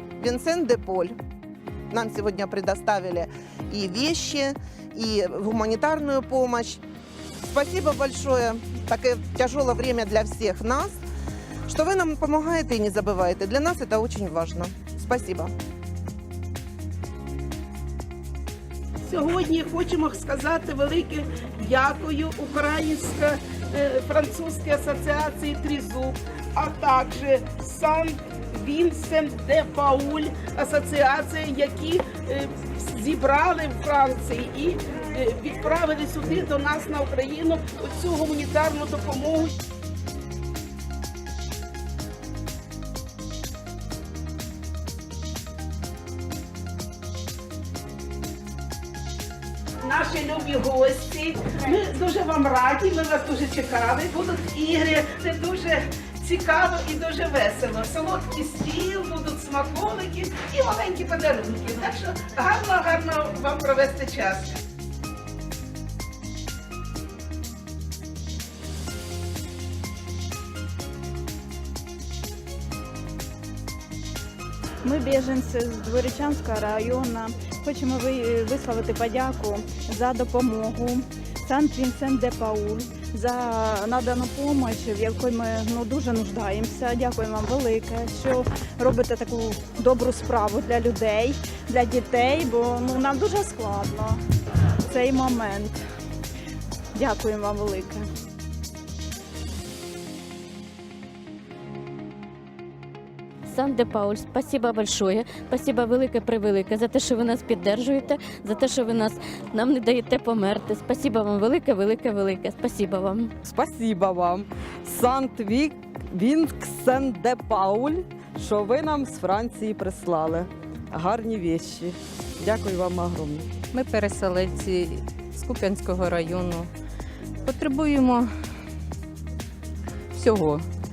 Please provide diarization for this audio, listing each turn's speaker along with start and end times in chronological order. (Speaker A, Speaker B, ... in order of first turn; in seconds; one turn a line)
Speaker A: 0.2-1.1
Speaker A: 1.9-6.8
Speaker A: 7.4-11.0
Speaker A: 11.7-15.5
Speaker B: 19.1-39.5
Speaker B: 49.8-64.6
Speaker C: 74.8-94.2
Speaker C: 94.8-95.8
Speaker C: 96.9-98.1
Speaker D: 103.5-113.3
Speaker E: 113.4-123.5
Speaker F: 123.7-126.7
Speaker F: 127.4-128.3
Speaker F: 130.1-130.7